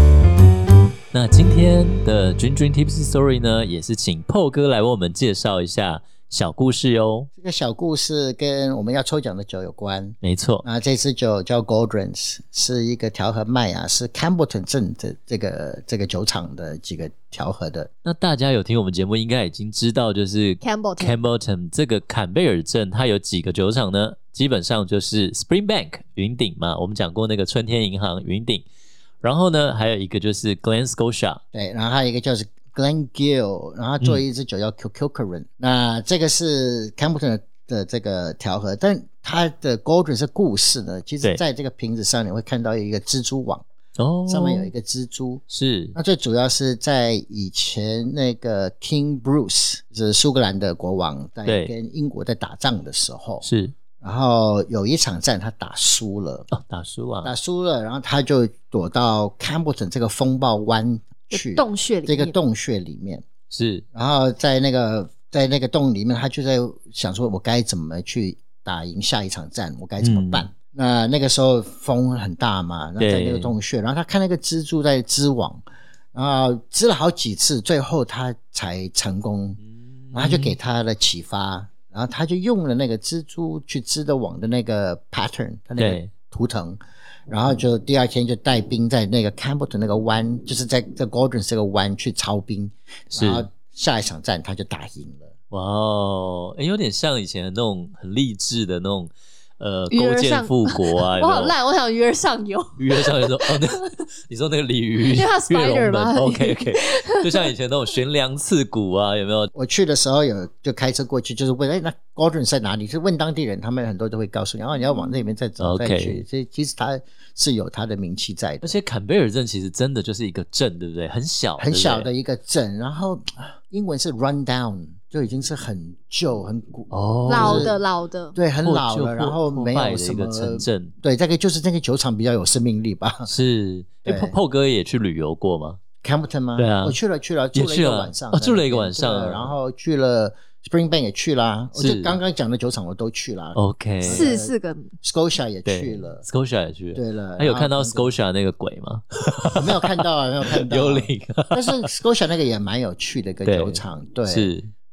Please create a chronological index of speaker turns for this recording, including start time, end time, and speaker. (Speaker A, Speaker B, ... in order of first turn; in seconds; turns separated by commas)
Speaker A: 1.1-7.3, Speaker B: 7.4-17.9, Speaker A: 10.2-10.6, Speaker A: 18.0-28.6, Speaker C: 20.6-21.2, Speaker A: 29.2-31.4, Speaker B: 31.5-43.6, Speaker A: 44.0-44.7, Speaker B: 44.3-45.4, Speaker A: 45.5-46.0, Speaker B: 46.0-53.5, Speaker A: 51.5-51.7, Speaker A: 53.4-53.8, Speaker B: 54.0-56.5, Speaker A: 56.5-57.3, Speaker B: 57.2-63.3, Speaker C: 61.3-62.4, Speaker A: 63.5-63.8, Speaker B: 63.9-79.6, Speaker A: 70.0-70.5, Speaker A: 73.0-73.5, Speaker A: 80.1-80.6, Speaker B: 80.1-95.3, Speaker A: 85.8-86.1, Speaker A: 93.1-93.5, Speaker A: 95.5-101.5, Speaker C: 99.9-103.9, Speaker A: 102.8-109.5, Speaker C: 105.1-107.5, Speaker B: 109.5-118.8, Speaker A: 115.6-116.2, Speaker A: 118.6-122.1, Speaker B: 121.6-127.8, Speaker A: 126.9-127.7, Speaker C: 127.3-128.4, Speaker B: 128.3-133.3, Speaker A: 128.6-130.9, Speaker A: 133.3-135.8, Speaker B: 134.1-134.4, Speaker B: 136.0-146.2, Speaker A: 136.6-137.0, Speaker A: 137.5-139.6, Speaker A: 141.8-142.2, Speaker A: 143.6-144.3, Speaker C: 144.1-144.9, Speaker A: 145.7-151.9, Speaker B: 146.9-148.1, Speaker B: 149.6-154.5, Speaker A: 153.4-154.7